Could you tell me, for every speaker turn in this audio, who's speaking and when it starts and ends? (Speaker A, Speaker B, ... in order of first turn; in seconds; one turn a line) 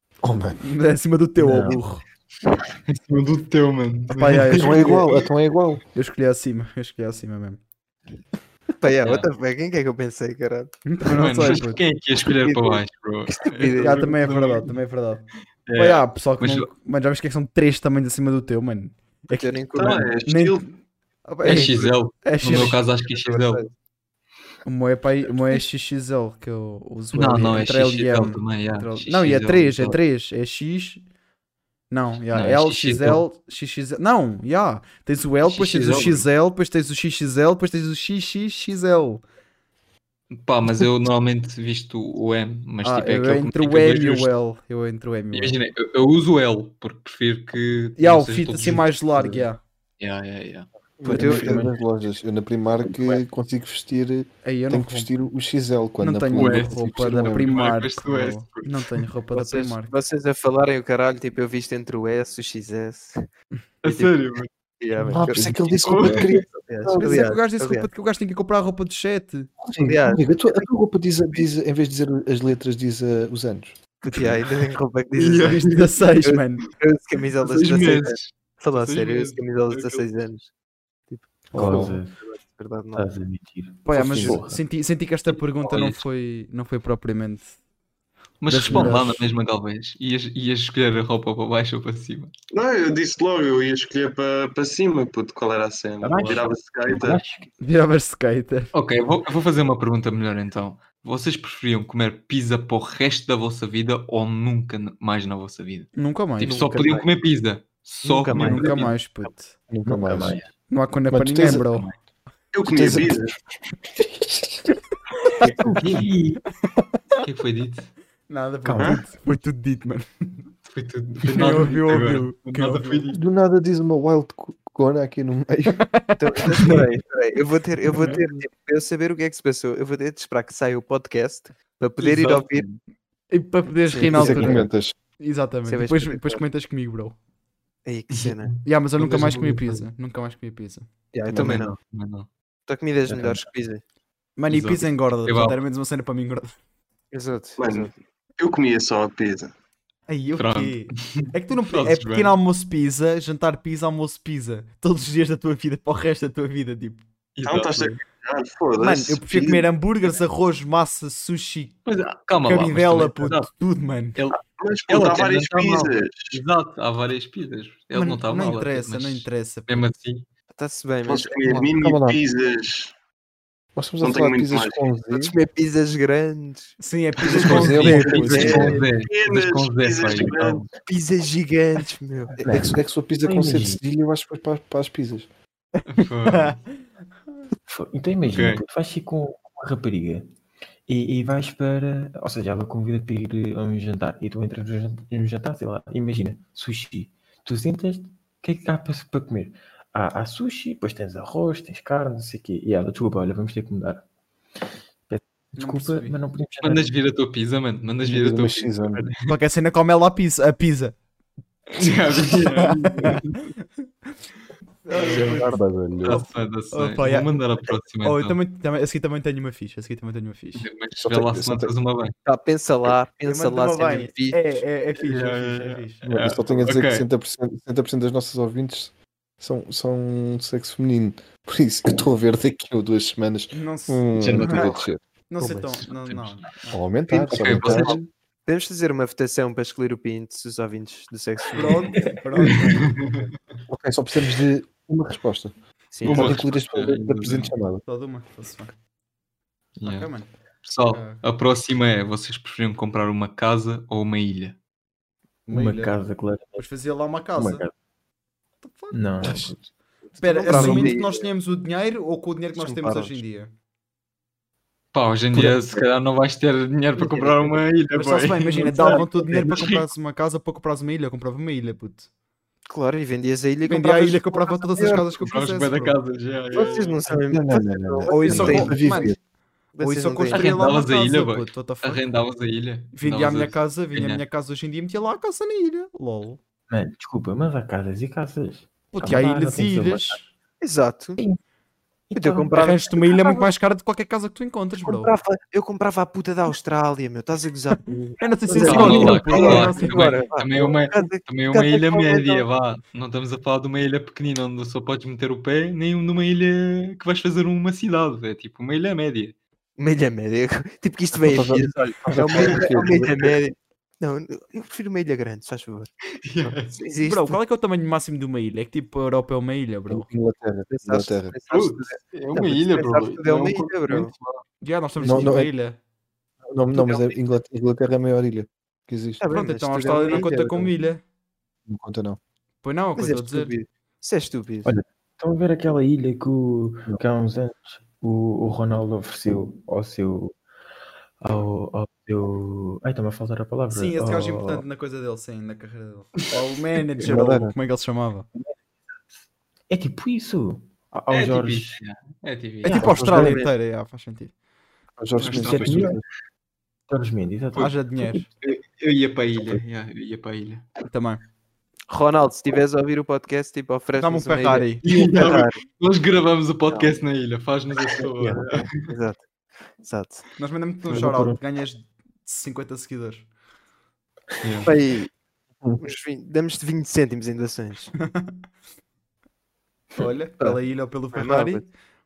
Speaker A: 0.2-0.6
Speaker B: 0.6-2.0
Speaker C: 1.4-1.8
Speaker D: 2.9-5.2
Speaker B: 4.1-5.1
Speaker A: 4.5-5.8
Speaker B: 5.9-7.6
Speaker E: 8.8-10.7
Speaker D: 9.0-9.3
Speaker B: 10.9-11.8
Speaker D: 11.1-14.7
Speaker E: 12.2-14.2
Speaker B: 13.8-19.6
Speaker D: 15.7-16.7
Speaker E: 19.3-20.1
Speaker D: 19.8-20.1
Speaker F: 19.8-20.7
Speaker B: 20.2-20.7
Speaker B: 21.2-22.8
Speaker D: 21.4-23.6
Speaker E: 21.5-21.8
Speaker E: 22.4-23.7
Speaker B: 24.6-31.0
Speaker D: 27.1-30.0
Speaker B: 31.9-39.2
Speaker D: 32.3-33.2
Speaker F: 35.5-36.2
Speaker D: 35.8-36.2
Speaker D: 40.3-44.3
Speaker B: 42.8-45.6
Speaker D: 45.3-48.9
Speaker B: 48.0-49.6
Speaker D: 50.0-50.7
Speaker A: 51.0-57.6
Speaker E: 51.1-51.8
Speaker B: 51.1-51.5
Speaker C: 52.9-53.2
Speaker B: 54.4-55.1
Speaker B: 56.0-59.9
Speaker D: 56.4-59.0
Speaker E: 59.3-63.3
Speaker D: 63.8-64.5
Speaker E: 63.9-64.1
Speaker E: 64.8-67.9
Speaker A: 65.1-67.3
Speaker D: 65.8-66.4
Speaker B: 67.0-69.5
Speaker A: 69.6-73.8
Speaker E: 69.8-70.7
Speaker E: 74.0-80.5
Speaker D: 75.2-75.9
Speaker B: 75.5-76.6
Speaker D: 77.4-80.0
Speaker E: 81.1-83.1
Speaker A: 81.5-82.0
Speaker C: 81.5-82.2
Speaker C: 82.9-84.6
Speaker B: 83.8-87.5
Speaker D: 85.6-86.0
Speaker D: 88.4-92.3
Speaker B: 88.5-89.3
Speaker F: 92.5-97.2
Speaker C: 96.0-97.5
Speaker B: 97.6-98.7
Speaker D: 98.7-108.9
Speaker B: 106.0-106.6
Speaker E: 106.4-107.1
Speaker E: 108.0-109.3
Speaker B: 108.3-109.5
Speaker A: 109.7-110.4
Speaker C: 109.9-110.5
Speaker B: 110.7-111.9
Speaker A: 111.1-111.8
Speaker F: 112.5-113.3
Speaker A: 112.6-113.3
Speaker A: 114.0-114.7
Speaker C: 115.4-116.4
Speaker D: 117.2-117.9
Speaker B: 118.3-120.4
Speaker C: 118.7-119.1
Speaker D: 120.7-123.2
Speaker B: 121.2-123.1
Speaker A: 123.1-125.9
Speaker B: 125.9-126.8
Speaker E: 126.2-132.7
Speaker D: 132.0-132.8
Speaker B: 133.3-137.2
Speaker C: 134.0-134.7
Speaker A: 134.1-134.9
Speaker E: 135.7-136.4
Speaker E: 137.8-138.5
Speaker D: 138.1-139.8
Speaker B: 138.6-140.9
Speaker E: 141.1-141.7
Speaker A: 141.3-141.6
Speaker D: 141.3-142.3
Speaker E: 142.7-143.8
Speaker B: 144.4-146.6
Speaker D: 144.5-145.6
Speaker E: 147.1-147.9
Speaker F: 147.6-149.5
Speaker B: 150.1-157.0
Speaker D: 150.4-152.4
Speaker D: 157.4-158.0
Speaker F: 157.4-159.7
Speaker B: 158.8-161.8
Speaker D: 161.9-163.5
Speaker B: 162.4-164.2
Speaker D: 164.2-170.3
Speaker F: 164.4-166.4
Speaker B: 167.9-169.9
Speaker E: 170.6-171.6
Speaker F: 171.1-172.9
Speaker A: 171.5-172.2
Speaker A: 173.8-175.3
Speaker F: 174.0-175.0
Speaker E: 175.1-176.8
Speaker B: 176.8-178.8
Speaker A: 177.3-178.8
Speaker D: 177.4-180.7
Speaker F: 177.5-180.7
Speaker E: 180.8-182.4
Speaker A: 182.4-185.3
Speaker C: 182.4-183.8
Speaker D: 185.9-186.6
Speaker B: 186.3-186.7
Speaker C: 187.7-190.3
Speaker D: 188.3-188.6
Speaker C: 190.9-204.1
Speaker C: 205.1-206.9
Speaker B: 205.6-206.2
Speaker D: 206.6-209.3
Speaker A: 208.0-209.1
Speaker B: 209.2-210.9
Speaker D: 211.8-213.5
Speaker B: 212.3-213.2
Speaker B: 214.8-217.4
Speaker E: 214.9-215.6
Speaker A: 215.0-216.2
Speaker D: 216.0-218.4
Speaker B: 218.0-220.7
Speaker D: 220.6-222.1
Speaker A: 221.0-221.8
Speaker E: 222.2-224.6
Speaker B: 223.3-226.0
Speaker D: 225.0-227.1
Speaker A: 226.0-235.0
Speaker B: 233.5-234.7
Speaker D: 234.2-234.9
Speaker B: 235.3-236.8
Speaker D: 235.8-236.5
Speaker A: 236.7-238.0
Speaker E: 237.1-242.0
Speaker D: 237.3-238.0
Speaker B: 241.5-243.0
Speaker D: 242.4-243.2
Speaker A: 243.7-247.8
Speaker E: 245.9-246.5
Speaker D: 246.0-247.5
Speaker B: 247.9-248.8
Speaker D: 249.8-250.1
Speaker B: 249.8-250.3
Speaker D: 250.6-254.6
Speaker B: 250.8-251.2
Speaker B: 255.5-256.0
Speaker C: 255.5-256.6
Speaker B: 256.5-257.6
Speaker C: 257.3-257.7
Speaker B: 258.6-259.5
Speaker C: 258.9-259.6
Speaker B: 260.2-263.5
Speaker E: 260.2-261.3
Speaker C: 260.5-260.9
Speaker E: 262.6-263.2
Speaker D: 264.9-269.9
Speaker C: 265.4-265.6
Speaker E: 267.0-267.4
Speaker B: 267.9-272.1
Speaker E: 268.7-269.6
Speaker E: 272.7-275.2
Speaker B: 273.7-276.0
Speaker D: 275.2-277.0
Speaker E: 276.5-279.1
Speaker A: 277.1-279.2
Speaker B: 278.1-279.1
Speaker E: 279.8-280.8
Speaker B: 279.8-282.0
Speaker D: 280.3-284.2
Speaker B: 282.9-286.4
Speaker C: 286.7-290.2
Speaker B: 288.9-290.3
Speaker E: 290.6-291.2
Speaker C: 292.1-292.7
Speaker E: 292.1-293.3
Speaker B: 292.6-295.1
Speaker E: 294.8-297.9
Speaker C: 297.9-299.6
Speaker B: 298.2-300.2
Speaker E: 298.5-302.4
Speaker D: 298.6-309.4
Speaker E: 309.8-315.9
Speaker A: 311.1-313.3
Speaker D: 312.4-312.7
Speaker D: 316.2-316.8
Speaker E: 316.4-317.4
Speaker B: 317.0-320.1
Speaker A: 319.9-321.4
Speaker E: 320.7-324.1
Speaker D: 321.5-324.4
Speaker B: 324.6-325.8
Speaker A: 325.0-325.5
Speaker A: 326.5-329.2
Speaker E: 326.7-327.2
Speaker E: 329.2-330.7
Speaker B: 329.3-331.0
Speaker A: 331.7-332.2
Speaker B: 332.6-333.5
Speaker E: 333.0-334.7
Speaker C: 334.6-340.4
Speaker C: 341.2-344.6
Speaker B: 343.7-348.3
Speaker A: 347.0-347.6
Speaker C: 349.7-351.8
Speaker D: 351.1-352.9
Speaker B: 352.6-354.3
Speaker C: 352.6-353.4
Speaker E: 353.0-353.5
Speaker A: 355.0-356.0
Speaker D: 355.2-356.0
Speaker C: 355.2-356.0
Speaker C: 356.9-358.2
Speaker B: 357.6-358.3
Speaker D: 358.4-360.7
Speaker B: 360.9-361.2
Speaker E: 361.9-365.6
Speaker B: 364.0-364.8
Speaker D: 364.8-368.9
Speaker E: 366.7-367.0
Speaker E: 368.0-369.2
Speaker E: 369.8-370.3
Speaker B: 370.4-373.3
Speaker C: 370.9-371.4
Speaker D: 374.4-374.7
Speaker E: 374.6-375.1
Speaker E: 375.8-377.9
Speaker B: 378.0-378.4
Speaker B: 379.9-381.7
Speaker E: 381.1-381.7